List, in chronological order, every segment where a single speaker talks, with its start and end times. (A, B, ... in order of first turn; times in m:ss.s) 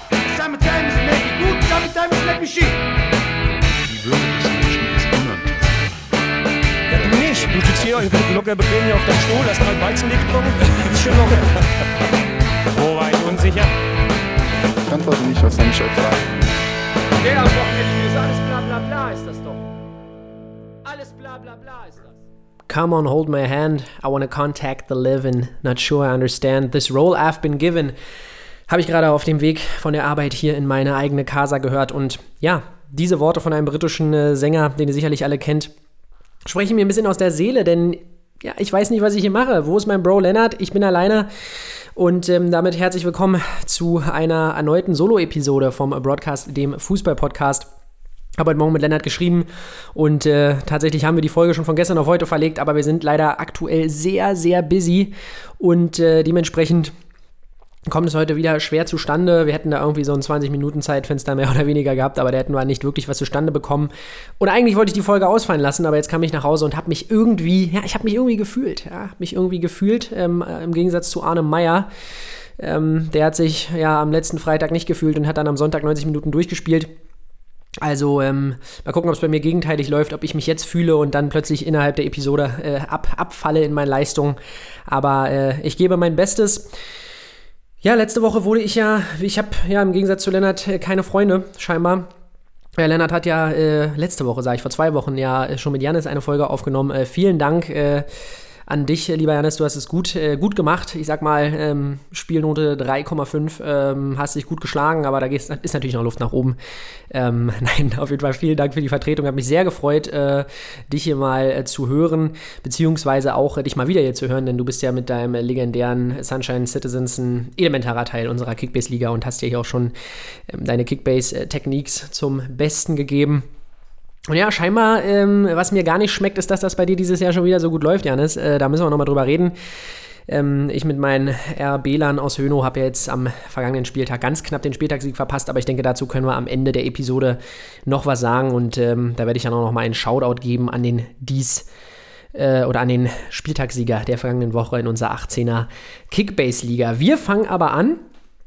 0:00.2-0:02.8 A
0:03.9-0:05.6 B
0:06.9-0:11.6 A
0:12.7-0:13.7 A
0:14.9-0:16.4 B
0:17.2-0:19.6 A
0:20.8-0:22.1 A
0:22.7-0:28.0 C
0:28.7-0:35.7 C
0:36.5-0:41.3 C
0:42.0-0:47.7 C
0:48.4-0:56.9 C
0:57.9-1:11.9 C
1:12.6-1:16.9 C
1:17.8-1:26.7 C
1:27.8-1:32.1 C
1:32.8-1:38.1 C
1:38.7-1:46.6 C
1:47.1-1:59.9 C
2:00.5-2:03.5 C
2:04.3-2:09.6 C
2:10.3-2:21.7 C
2:22.3-2:28.0 C